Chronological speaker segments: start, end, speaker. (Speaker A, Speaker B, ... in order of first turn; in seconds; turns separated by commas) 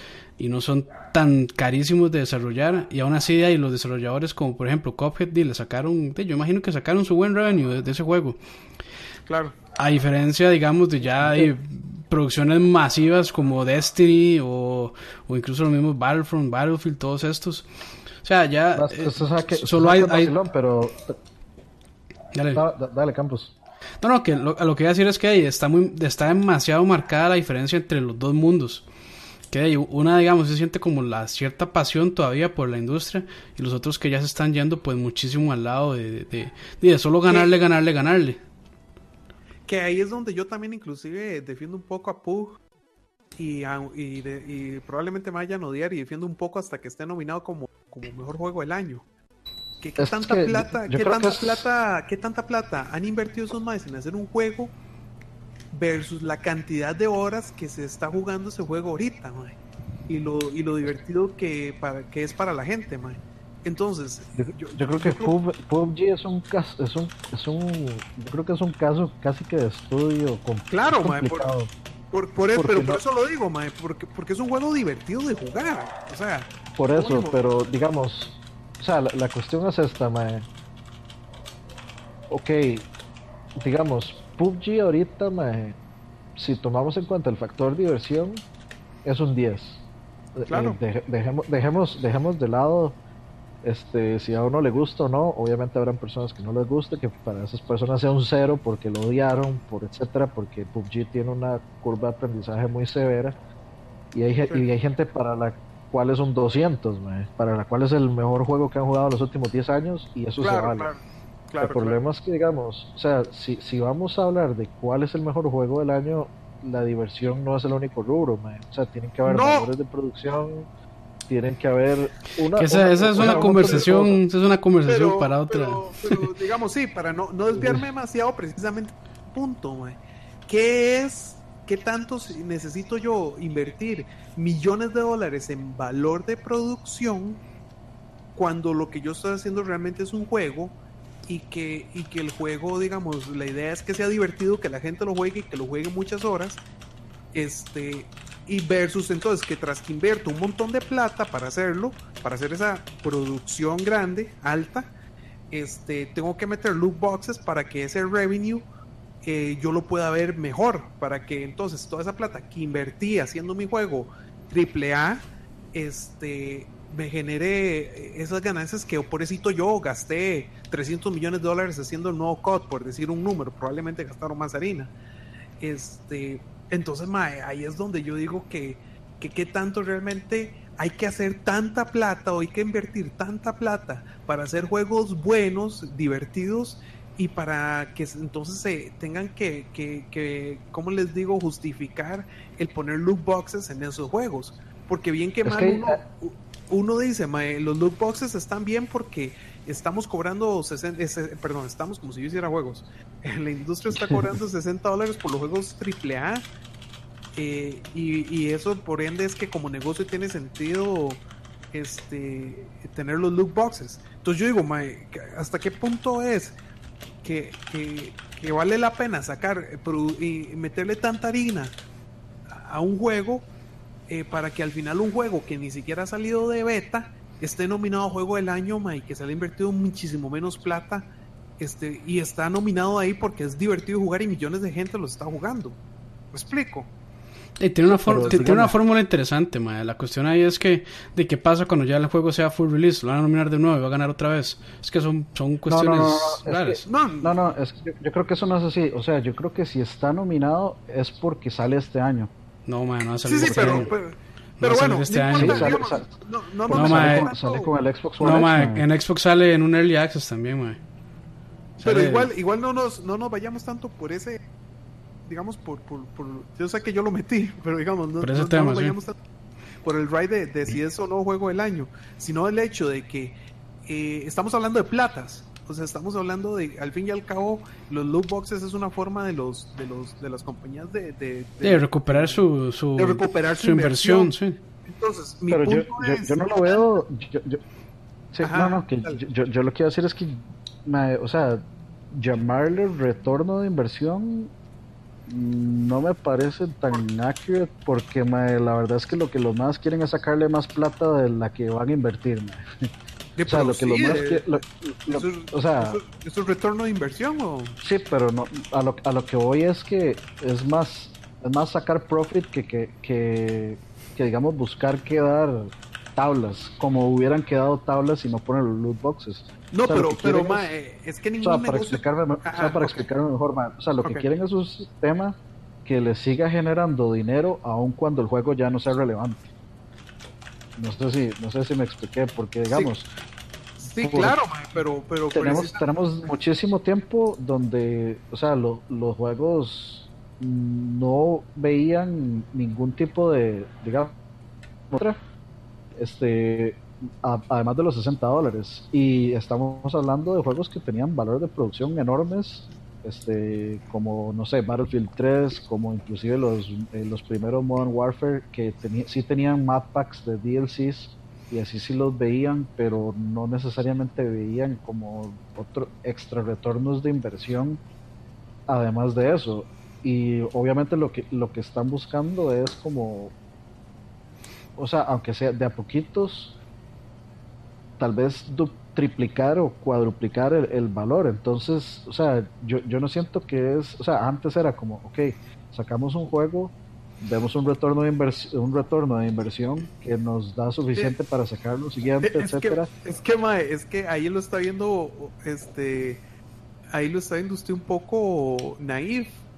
Speaker A: 0.4-8.4, Speaker B: 9.3-9.6, Speaker A: 9.8-17.7, Speaker C: 11.0-11.5, Speaker A: 18.2-20.3, Speaker C: 18.7-21.2, Speaker A: 22.3-22.6, Speaker C: 22.5-23.5, Speaker A: 24.0-28.9, Speaker A: 29.5-38.4, Speaker B: 39.7-42.6, Speaker B: 43.4-49.0, Speaker B: 49.8-54.7, Speaker C: 50.0-51.7, Speaker B: 55.7-65.3, Speaker C: 64.3-71.7, Speaker B: 70.7-71.5, Speaker B: 72.1-77.4, Speaker C: 72.5-73.0, Speaker C: 76.8-80.5, Speaker C: 82.3-82.9, Speaker C: 83.6-85.8, Speaker C: 86.4-88.4, Speaker C: 89.0-89.8, Speaker C: 90.4-93.0, Speaker B: 90.5-90.8, Speaker C: 93.6-103.4, Speaker C: 104.1-110.9, Speaker B: 110.4-112.0, Speaker C: 111.6-120.7, Speaker B: 119.2-119.7, Speaker C: 121.3-124.2, Speaker A: 122.5-126.3, Speaker B: 123.2-123.9, Speaker B: 124.8-137.4, Speaker C: 127.5-127.8, Speaker B: 138.3-140.8, Speaker B: 141.3-146.6, Speaker B: 147.3-154.9, Speaker B: 155.5-158.7, Speaker B: 159.2-174.9, Speaker B: 175.6-206.5, Speaker C: 195.4-196.0, Speaker C: 203.9-204.3, Speaker B: 207.3-216.6, Speaker B: 217.2-221.8, Speaker B: 222.5-223.5, Speaker B: 224.1-235.8, Speaker B: 236.3-236.9, Speaker A: 237.6-246.8, Speaker C: 237.9-238.8, Speaker B: 238.1-238.5, Speaker C: 245.7-252.3, Speaker B: 246.8-247.4, Speaker A: 252.7-253.9, Speaker B: 253.2-257.7, Speaker C: 253.5-253.9, Speaker A: 254.6-255.8, Speaker C: 255.3-258.8, Speaker A: 256.7-257.3, Speaker A: 258.2-260.8, Speaker A: 261.8-262.3, Speaker B: 261.8-264.5, Speaker B: 265.2-269.1, Speaker A: 268.2-268.9, Speaker B: 269.8-282.4, Speaker A: 281.6-284.6, Speaker B: 282.9-286.9, Speaker C: 285.5-287.6, Speaker C: 288.3-294.5, Speaker B: 288.4-289.2, Speaker C: 295.2-302.6, Speaker B: 303.4-304.6, Speaker C: 303.5-306.0, Speaker B: 305.1-307.8, Speaker C: 307.8-320.7, Speaker B: 319.7-323.1, Speaker C: 321.4-329.5, Speaker B: 324.0-324.3, Speaker C: 330.8-333.1, Speaker B: 332.7-332.9, Speaker B: 333.8-335.8, Speaker C: 334.0-334.4, Speaker C: 335.3-344.1, Speaker C: 344.9-345.2, Speaker C: 345.9-367.8, Speaker C: 368.7-373.3, Speaker C: 374.8-376.6, Speaker C: 378.0-392.9, Speaker B: 392.2-396.2, Speaker B: 396.9-399.4